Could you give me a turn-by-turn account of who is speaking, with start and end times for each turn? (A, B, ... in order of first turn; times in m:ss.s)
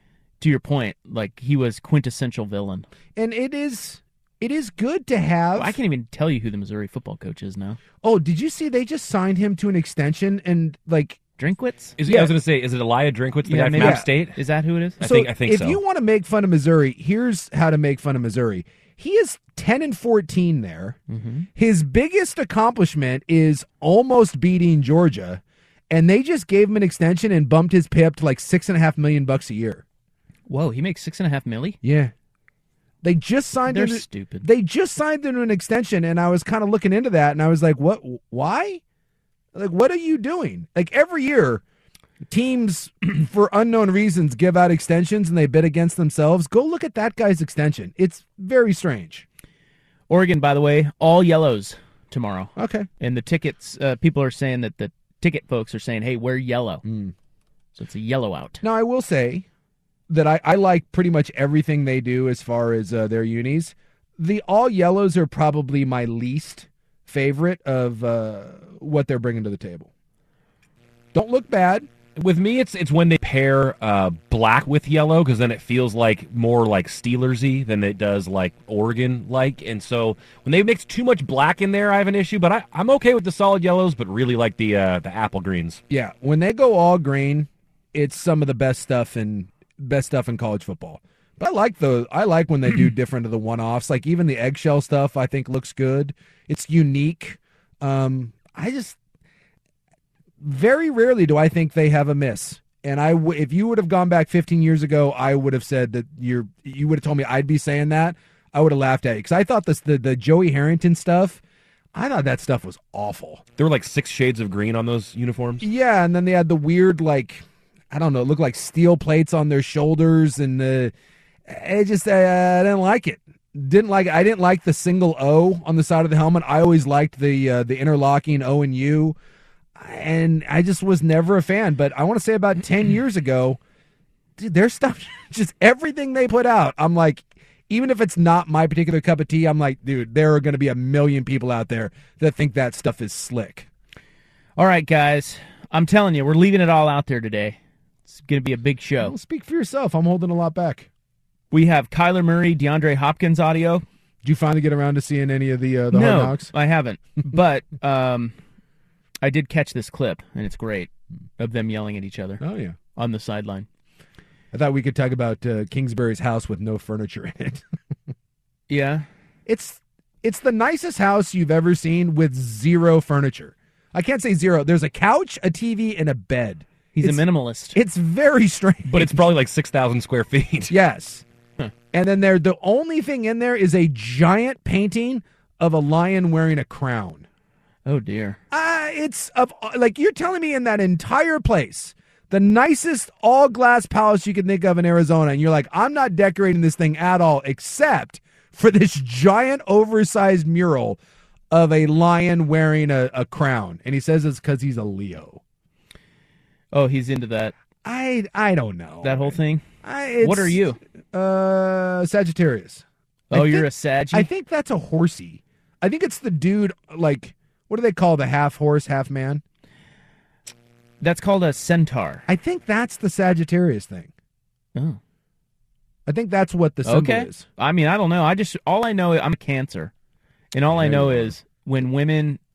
0:00.4-0:02.9 A
0:03.2-0:05.8 B
0:05.6-0:07.8 A
0:08.0-0:11.2 B
0:11.4-0:12.0 A
0:12.0-0:14.4 C
0:12.1-0:12.3 B
0:13.4-0:15.0 A
0:13.8-0:14.1 B
0:15.0-0:15.8 C
0:15.0-0:21.0 B
0:21.1-0:21.5 A
0:21.6-0:29.8 B
0:30.5-0:31.8 A
0:31.8-0:32.1 B
0:33.0-0:38.8 B
0:33.7-0:34.5 A
0:39.5-0:41.6 B
0:42.3-0:49.2 B
0:50.1-0:56.8 A
0:52.6-0:52.9 B
0:56.8-0:57.1 B
0:57.8-0:58.6 A
0:58.6-0:59.5 B
1:00.1-1:09.9 B
1:11.1-1:11.9 B
1:12.2-1:25.8 C
1:25.9-1:39.0 B
1:40.4-1:51.4 B
1:51.9-1:53.4 B
1:53.6-1:55.6 C
1:55.6-2:00.9 B
2:01.5-2:09.2 B
2:09.8-2:13.6 B
2:14.4-2:23.7 B
2:24.6-2:27.6 A
2:28.1-2:29.2 A
2:29.0-2:30.9 B
2:31.5-2:33.8 A
2:34.2-2:36.5 B
2:35.9-2:38.3 A
2:39.2-2:42.4 A
2:42.4-2:42.8 B
2:43.0-2:43.7 A
2:44.5-2:47.6 B
2:48.7-2:49.1 A
2:49.5-2:57.2 B
2:56.9-2:57.8 A
2:57.7-2:59.2 B
2:58.9-3:00.7 C
3:00.7-3:01.2 B
3:01.9-3:07.2 B
3:07.9-3:08.4 A
3:08.5-3:21.0 B
3:21.5-3:25.4 B
3:26.7-3:27.5 A
3:27.8-3:39.4 B
3:29.0-3:29.6 A
3:30.2-3:30.8 A
3:33.3-3:34.3 A
3:41.0-3:42.2 A
3:42.3-3:44.1 B
3:46.1-3:47.5 B
3:46.8-3:49.9 A
3:50.5-3:52.4 A
3:50.7-3:51.3 B